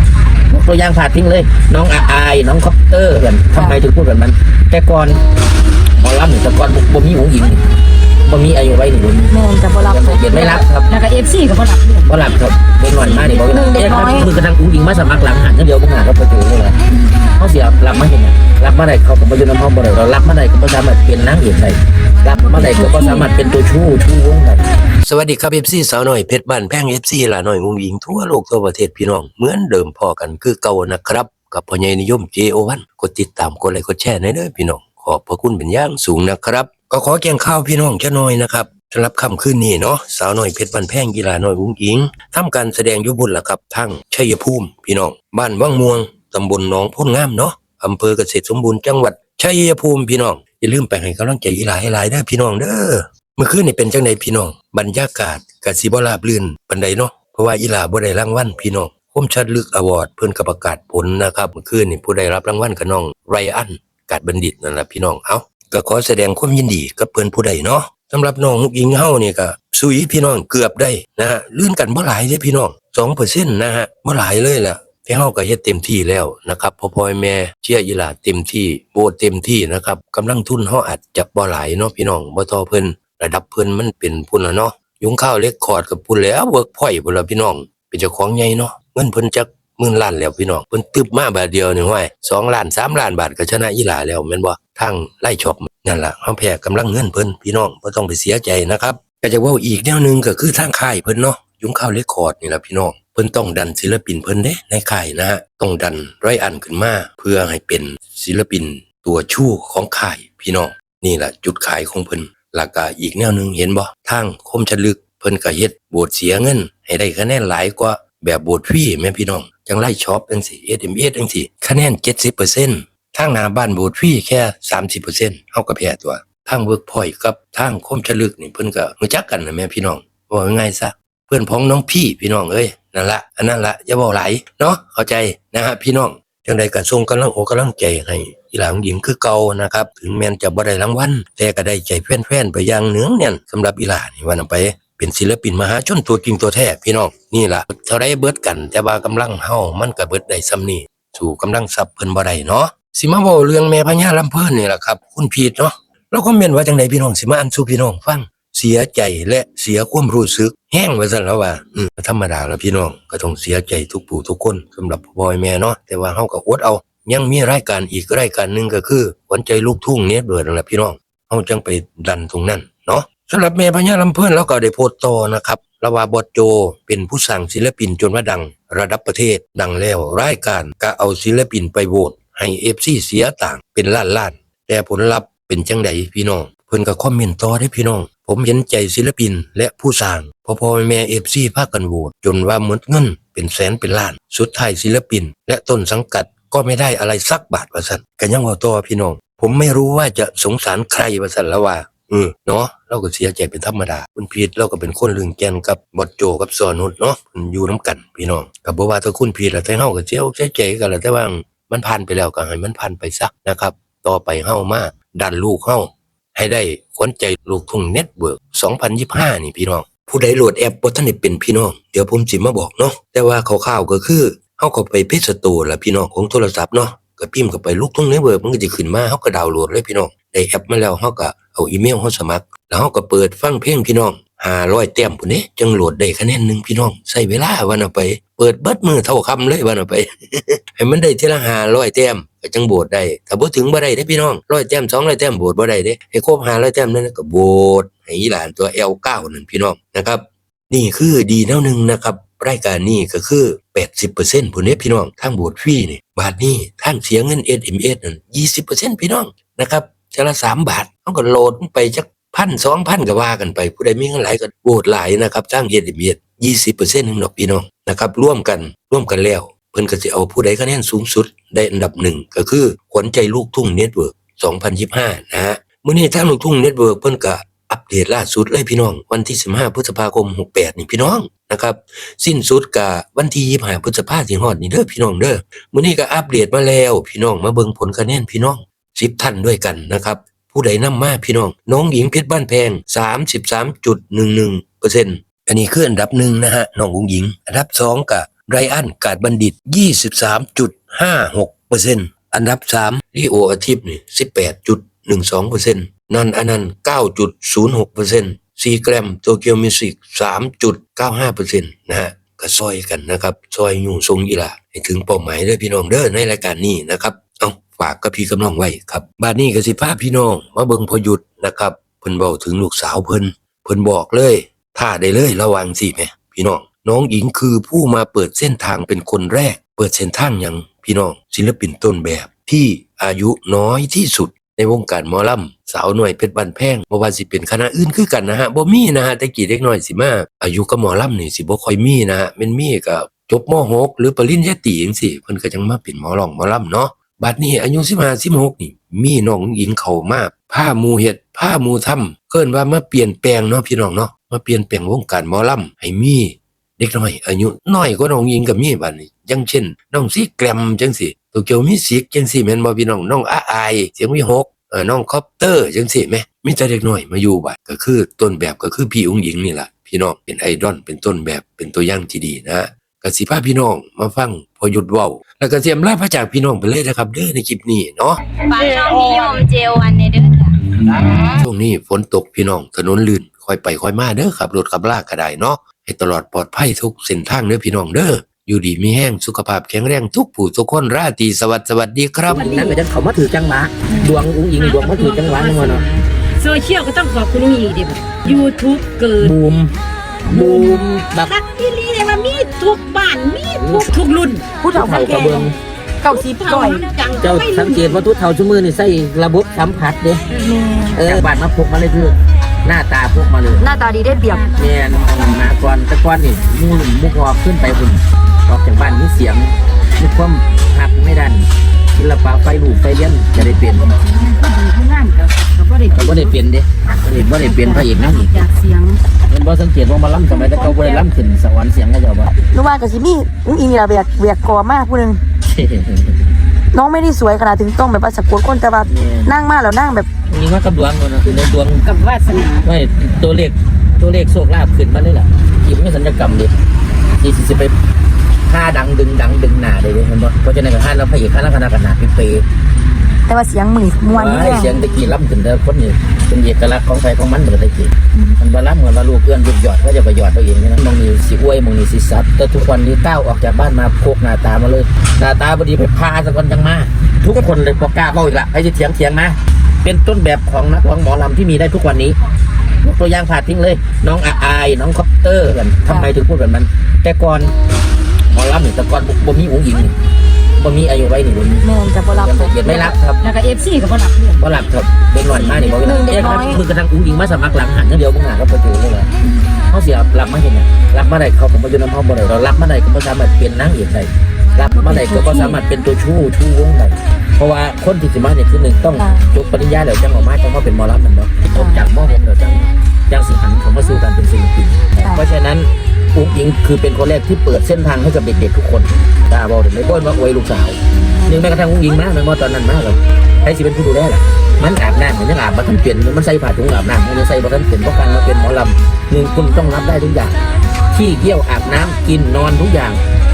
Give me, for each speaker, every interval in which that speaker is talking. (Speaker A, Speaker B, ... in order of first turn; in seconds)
Speaker A: 0.5-5.2, 6.0-7.6, 8.2-9.3, 9.9-10.9, 12.1-16.8, 17.4-24.6, 392.3-395.8, 399.2-399.7, 400.3-401.3, 403.6-403.9, 404.7-405.5, 407.2-410.2, 411.0-413.6, 414.5-423.9, 425.9-428.4, 429.3-432.3, 435.5-436.2, 438.9-439.3, 440.2-441.9, 442.6-446.5, 447.2-447.7, 448.5-452.4, 454.1-472.2, 472.8-477.5, 478.3-479.9, 480.6-483.2, 484.4-489.1, 489.7-520.4, 520.9-523.0
Speaker B: 9.3-10.6, 13.5-14.3, 22.6-23.3, 404.6-406.9, 410.3-411.3, 413.6-414.5, 432.5-435.2, 436.7-440.1, 453.3-454.8, 481.6-482.9, 485.7-486.6, 494.8-495.5, 499.0-499.3, 501.5-501.8, 505.0-505.2, 511.1-511.4
Speaker C: 10.9-12.1, 13.0-13.5, 394.6-399.3, 400.3-400.7, 401.2-404.5, 406.0-407.8, 414.0-415.4, 423.7-426.3, 427.2-429.0, 430.3-431.0, 441.8-442.7, 483.2-484.4, 485.4-485.8
Speaker D: 25.0-378.2, 381.3-392.8
Speaker E: 378.5-380.6